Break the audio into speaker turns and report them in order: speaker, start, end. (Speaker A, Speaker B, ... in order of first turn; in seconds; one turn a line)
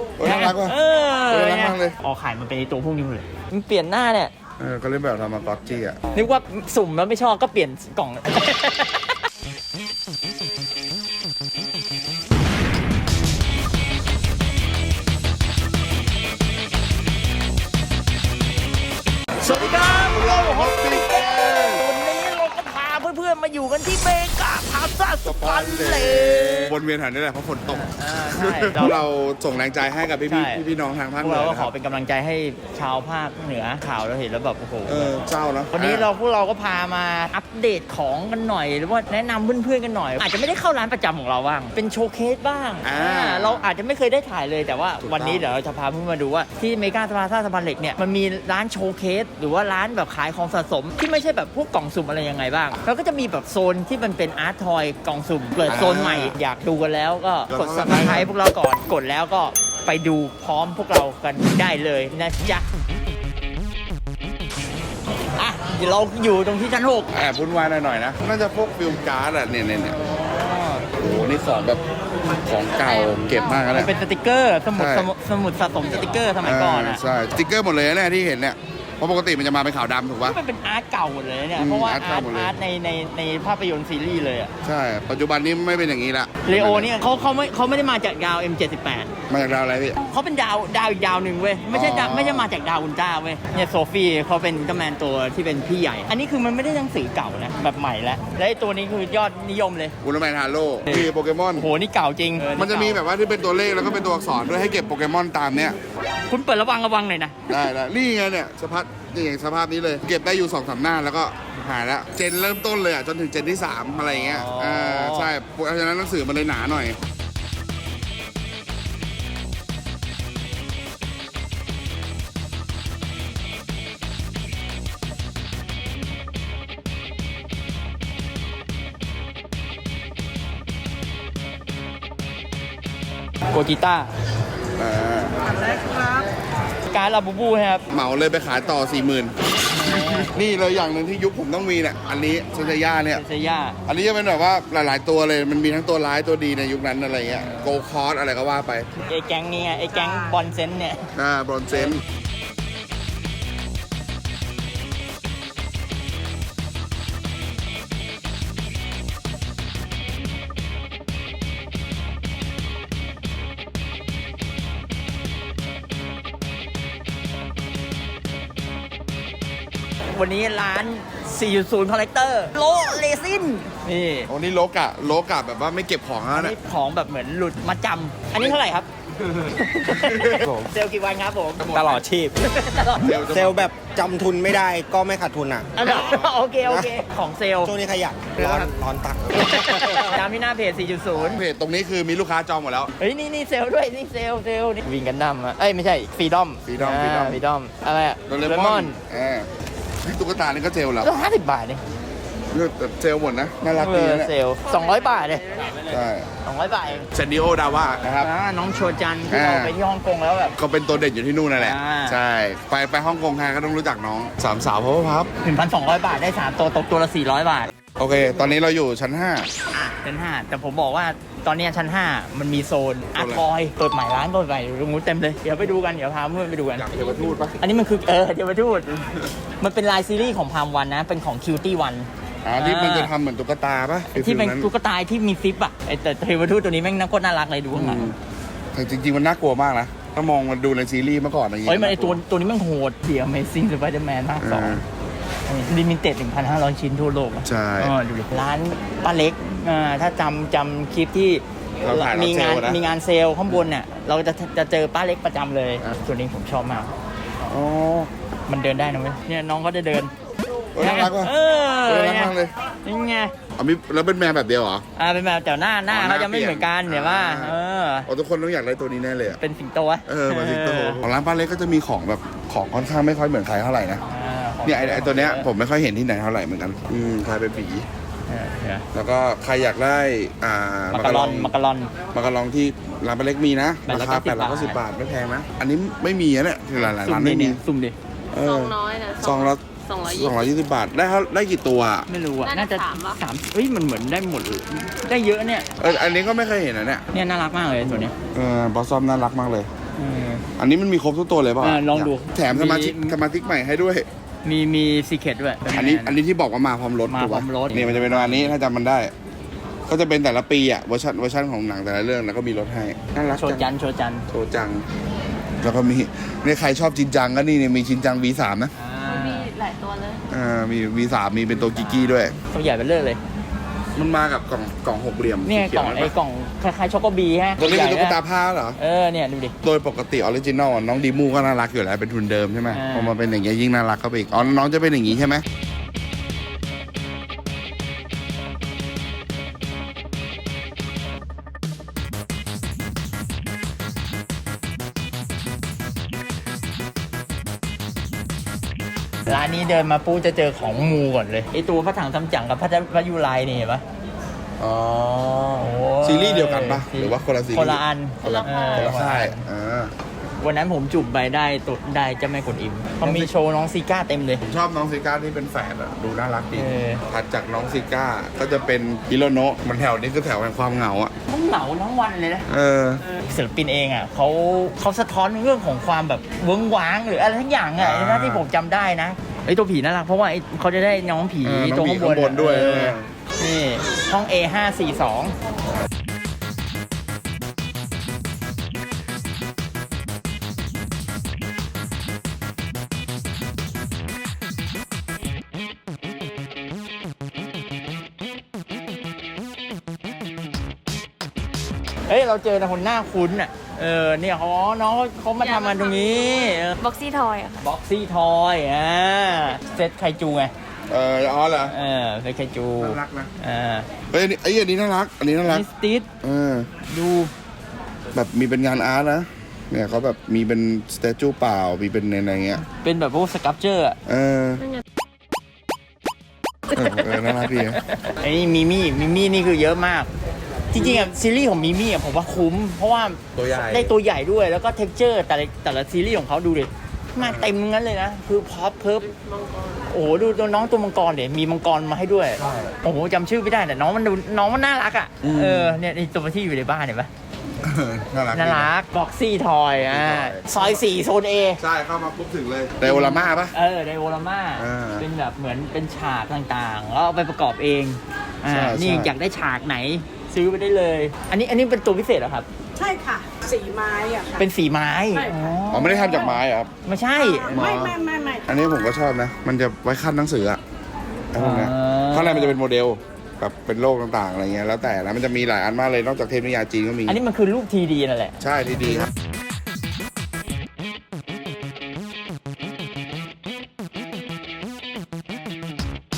Speaker A: 0.2-0.8
Speaker B: 0.2-4.3
Speaker A: 1.3-1.9
Speaker A: 4.6-6.1
Speaker B: 6.1-9.2
Speaker B: 19.4-26.8
Speaker A: 19.4-21.9
Speaker A: 25.2-31.7
Speaker B: 27.6-29.1
Speaker B: 30.2-30.6
Speaker B: 31.2-35.2
Speaker A: 34.9-36.1
Speaker B: 35.7-62.7
Speaker A: 42.8-43.7
Speaker A: 45.0-45.5
Speaker A: 55.7-56.4
Speaker A: 57.5-58.3
Speaker B: 65.4-67.2
Speaker A: 67.1-70.0
Speaker B: 70.0-70.9
Speaker A: 71.0-71.8
Speaker A: 72.3-73.9
Speaker B: 73.5-77.0
Speaker A: 74.8-75.1
Speaker A: 76.4-80.4
Speaker B: 80.2-84.5
Speaker A: 81.6-82.5
Speaker A: 84.7-86.9
Speaker B: 86.5-89.1
Speaker A: 89.3-90.0
Speaker B: 90.0-100.0
Speaker A: 91.7-92.5
Speaker A: 100.0-101.7
Speaker B: 100.9-103.0
Speaker A: 102.5-105.8
Speaker B: 106.3-107.6
Speaker A: 107.5-117.0
Speaker B: 114.0-115.3
Speaker B: 133.5-134.1
Speaker A: 134.8-135.4
Speaker B: 135.5-136.2
Speaker B: 136.9-137.9
Speaker A: 137.9-139.3
Speaker B: 139.7-140.4
Speaker A: 140.2-143.2
Speaker B: 143.1-143.8
Speaker A: 143.9-148.9
Speaker B: 147.3-147.8
Speaker B: 149.0-151.1
Speaker A: 151.2-152.0
Speaker B: 170.1-174.3
Speaker A: 174.3-176.6
Speaker B: 176.3-181.8
Speaker A: 179.2-180.7
Speaker A: 181.6-182.0
Speaker C: 181.6-182.3
Speaker B: 182.4-183.2
Speaker A: 182.9-183.7
Speaker C: 183.2-186.9
Speaker B: 185.8-187.8
Speaker C: 187.6-190.2
Speaker B: 188.3-188.7
Speaker B: 189.3-191.5
Speaker A: 191.1-192.9
Speaker B: 193.0-199.0
Speaker A: 196.7-197.4
Speaker A: 198.3-199.5
Speaker A: 200.0-201.1
Speaker B: 201.0-201.8
Speaker A: 202.5-204.3
Speaker B: 203.7-205.6
Speaker A: 205.8-206.3
Speaker B: 206.4-207.1
Speaker A: 207.1-208.3
Speaker B: 208.2-210.6
Speaker A: 209.3-209.7
Speaker A: 210.6-215.3
Speaker B: 211.6-212.2
Speaker B: 215.4-217.7
Speaker A: 217.9-219.5
Speaker B: 219.7-233.1
Speaker A: 223.2-223.4
Speaker A: 226.8-227.6
Speaker A: 232.4-234.7
Speaker B: 234.1-238.1
Speaker A: 237.8-238.2
Speaker A: 238.7-242.2
Speaker B: 241.6-244.8
Speaker A: 244.4-244.8
Speaker B: 245.5-256.9
Speaker A: 247.4-247.9
Speaker A: 251.8-252.8
Speaker A: 257.5-258.1
Speaker B: 258.5-260.1
Speaker A: 260.8-261.3
Speaker B: 260.8-263.3
Speaker A: 261.9-262.5
Speaker A: 263.6-264.8
Speaker B: 265.0-268.1
Speaker A: 265.9-269.4
Speaker B: 269.4-271.1
Speaker A: 270.1-274.0
Speaker B: 274.1-275.5
Speaker A: 274.6-277.9
Speaker B: 278.3-278.9
Speaker A: 278.9-281.5
Speaker B: 280.9-282.0
Speaker A: 282.1-287.6
Speaker B: 283.9-284.8
Speaker B: 286.7-287.9
Speaker A: 288.3-292.1
Speaker D: 288.4-290.4
Speaker E: 288.9-289.2
Speaker B: 292.1-295.7
Speaker D: 292.4-293.2
Speaker A: 295.8-297.1
Speaker B: 297.1-298.1
Speaker A: 297.8-299.7
Speaker B: 300.0-300.5
Speaker A: 300.6-304.1
Speaker B: 301.6-303.2
Speaker B: 304.4-306.2
Speaker A: 305.7-309.1
Speaker B: 307.1-308.6
Speaker A: 309.9-313.7
Speaker B: 313.4-314.3
Speaker A: 314.3-314.8
Speaker A: 315.6-318.7
Speaker B: 318.8-319.6
Speaker D: 319.1-320.2
Speaker E: 319.9-320.1
Speaker A: 320.3-322.4
Speaker B: 321.5-323.2
Speaker A: 323.9-326.1
Speaker B: 325.4-328.2
Speaker A: 327.6-328.8
Speaker B: 328.8-329.6
Speaker A: 329.6-335.4
Speaker B: 332.7-333.2
Speaker B: 349.3-353.8
Speaker A: 354.6-355.1
Speaker B: 354.9-359.5
Speaker A: 356.0-359.9
Speaker B: 360.4-364.4
Speaker A: 363.0-363.3
Speaker A: 364.5-371.1
Speaker B: 366.5-367.1
Speaker B: 371.3-372.5
Speaker A: 372.5-373.0
Speaker B: 373.0-385.4
Speaker A: 377.8-378.4
Speaker A: 381.4-383.1
Speaker B: 402.1-406.9
Speaker D: 405.6-406.1
Speaker D: 406.8-407.6
Speaker E: 406.9-407.5
Speaker B: 407.6-410.5
Speaker A: 410.9-411.8
Speaker B: 411.6-413.9
Speaker A: 412.8-413.3
Speaker A: 414.1-415.6
Speaker B: 415.4-416.1
Speaker A: 416.2-416.7
Speaker B: 416.8-417.3
Speaker A: 418.1-422.6
Speaker B: 422.6-424.0
Speaker A: 424.1-424.6
Speaker A: 426.7-427.8
Speaker B: 426.8-430.1
Speaker B: 430.7-439.1
Speaker A: 433.4-433.9
Speaker A: 437.2-437.5
Speaker B: 439.9-447.1
Speaker A: 442.4-442.7
Speaker A: 445.2-445.8
Speaker A: 447.6-448.7
Speaker B: 448.3-451.6
Speaker A: 449.8-450.8
Speaker A: 451.6-453.5
Speaker B: 452.8-462.5
Speaker A: 454.6-455.1
Speaker A: 458.5-459.1
Speaker E: 462.8-464.3
Speaker B: 464.3-467.6
Speaker A: 465.7-466.7
Speaker A: 467.4-470.6
Speaker E: 467.9-468.3
Speaker A: 471.3-477.2
Speaker B: 471.3-472.6
Speaker B: 477.1-478.4
Speaker A: 478.4-479.1